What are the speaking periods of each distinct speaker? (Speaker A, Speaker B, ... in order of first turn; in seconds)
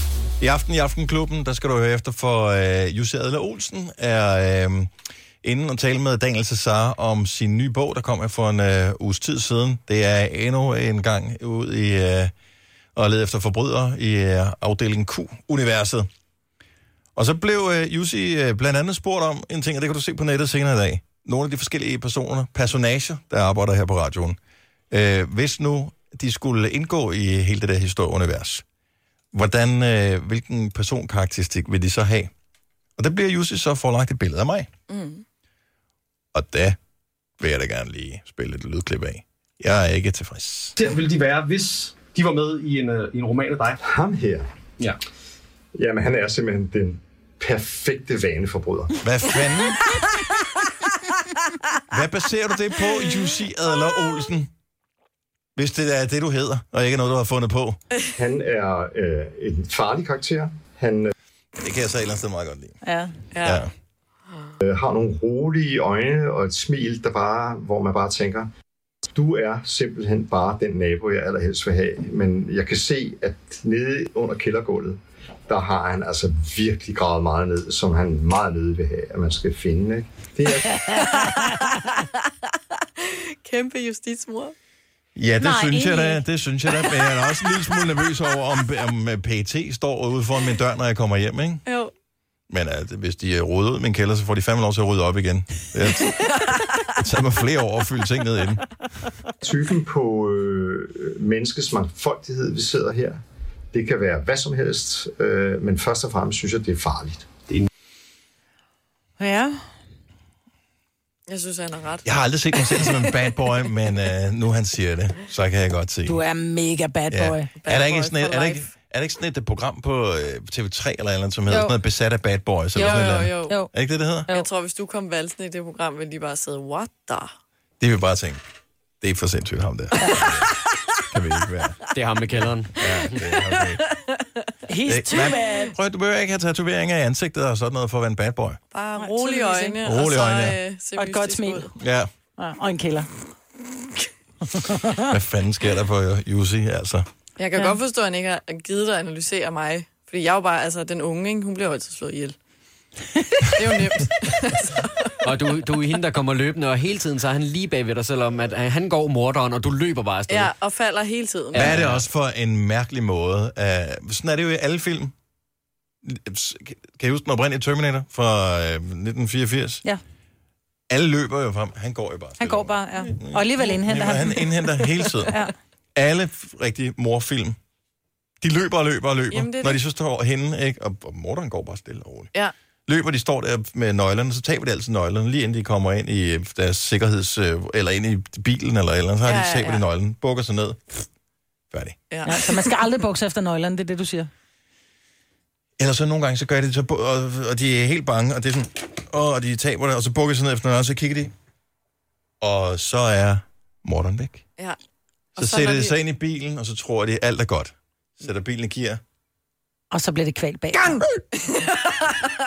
Speaker A: 0.4-4.9, 5.4-12.3, 12.9-16.1, 17.2-24.4, 24.9-28.6, 29.3-32.3, 33.0-34.7, 36.3-36.8, 37.4-40.8, 49.0-50.0, 51.9-54.5, 55.5-57.8, 61.6-62.8, 63.4-63.7, 85.1-91.6, 92.5-98.7, 112.0-116.2, 117.1-124.3, 127.8-128.4, 129.0-131.8, 132.3-133.8, 134.8-138.6, 139.8-140.6, 141.8-142.1, 145.1-147.1, 161.5-165.1, 166.0-169.8, 170.9-175.3, 175.9-177.5, 178.4-182.3, 182.9-191.0, 191.7-192.0, 195.8-201.3, 202.4-204.4, 205.3-209.0
Speaker B: 34.9-35.2, 63.3-63.6, 81.0-82.0, 83.0-84.5, 91.7-91.9, 111.3-112.1, 117.6-118.7, 122.8-123.7, 124.3-127.3, 133.1-134.2, 138.7-141.7, 147.4-152.3, 153.4-155.1, 160.3-161.8, 179.3-179.8, 189.2-189.8, 192.1-192.6, 205.4-206.0, 211.4-211.9
Speaker C: 40.8-43.8
Speaker D: 43.8-44.5, 45.7-49.0, 58.1-61.1, 64.6-68.5, 69.0-80.9, 99.4-103.2, 103.7-107.3
Speaker E: 62.8-63.1, 85.4-86.2, 109.2-109.6, 116.1-117.5, 134.7-135.8, 139.0-139.8, 140.9-141.7, 142.4-143.1, 144.5-145.0, 172.4-174.5, 175.2-175.5, 192.2-194.3, 209.9-211.1
Speaker F: 131.9-132.7, 155.2-160.4, 161.7-162.1